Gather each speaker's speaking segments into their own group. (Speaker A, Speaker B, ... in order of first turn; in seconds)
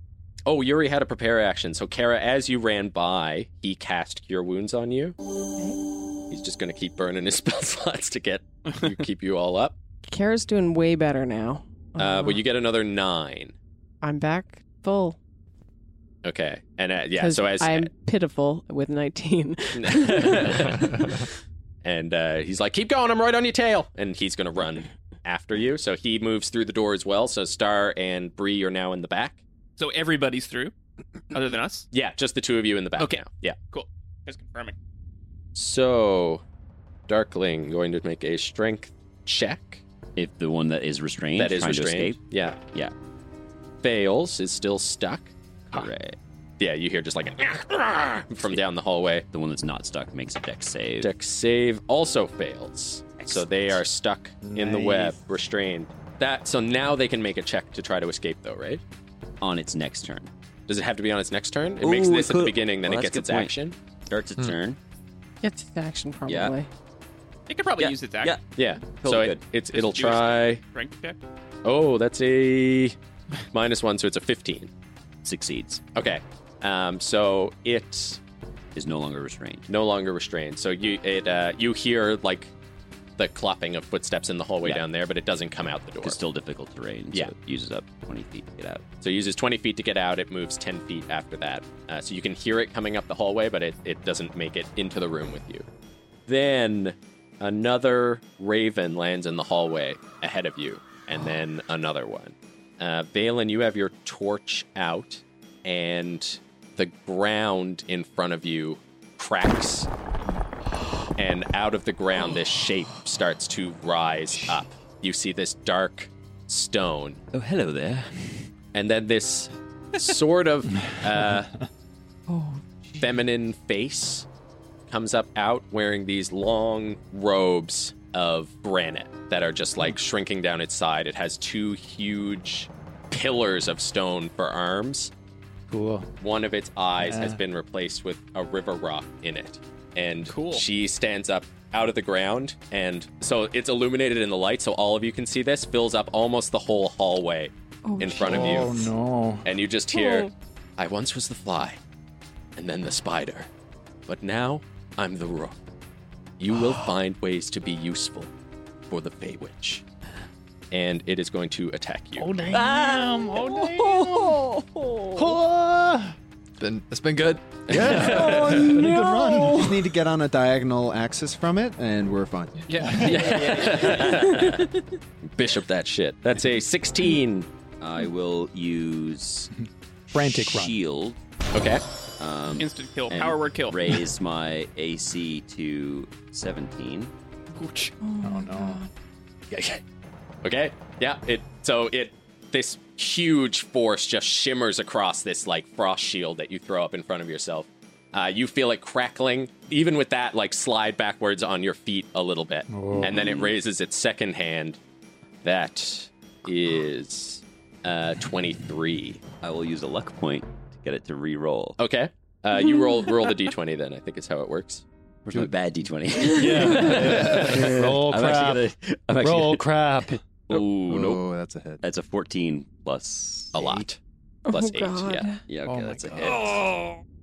Speaker A: 0.5-5.2, 6.3-9.7, 12.0-13.5, 16.2-17.9, 19.7-21.0, 21.8-29.4, 31.9-33.6, 35.5-36.4, 37.1-39.8, 41.4-42.6, 43.8-45.9, 46.6-49.2, 51.0-58.8, 60.7-63.7, 68.5-70.6, 71.6-73.0, 73.5-74.7, 75.9-78.2, 79.7-82.5, 83.2-86.2, 89.0-95.7, 96.3-109.9, 111.2-117.2, 118.7-121.5, 123.0-124.2, 124.9-135.1, 136.2-148.9, 149.4-151.8, 152.6-153.5, 154.1-155.6, 156.4-158.3, 158.9-159.8, 160.7-162.4, 172.9-174.7, 175.3-177.5, 181.5-181.8, 189.5-189.8, 190.4-204.8, 205.4-209.2, 211.8-214.8, 223.5-225.3
Speaker B: 10.0-12.4, 14.0-15.2, 17.2-21.3, 65.4-66.7, 147.8-148.7, 149.9-150.3, 163.9-165.2, 168.5-169.3, 188.0-188.9, 216.2-216.9, 224.5-225.4
Speaker C: 29.8-30.7, 31.3-31.9, 33.0-34.8, 67.5-68.4, 69.7-71.2, 140.3-140.6, 172.7-174.2, 182.6-184.0, 187.6-187.9
Speaker D: 40.1-42.2, 45.7-46.2, 49.3-51.1, 59.4-60.3, 61.8-63.5, 64.1-64.8, 66.2-66.5, 67.8-68.4, 69.0-69.4, 75.2-75.8, 78.7-79.7, 86.0-88.8, 117.3-118.4, 162.5-163.4, 173.1-174.6, 177.8-179.5, 180.1-181.2, 182.2-187.1, 203.0-203.4, 209.4-211.8, 215.2-221.2, 221.8-223.5, 225.5-227.0
Speaker E: 54.4-55.2, 135.7-136.1, 137.0-137.4, 148.2-149.4, 162.2-164.5, 165.1-166.2, 167.9-169.9, 172.8-173.1, 180.1-180.8, 188.2-188.8, 202.7-203.5, 216.4-220.2, 225.6-226.6
Speaker F: 166.6-168.7
Speaker G: 167.7-172.7, 220.8-221.8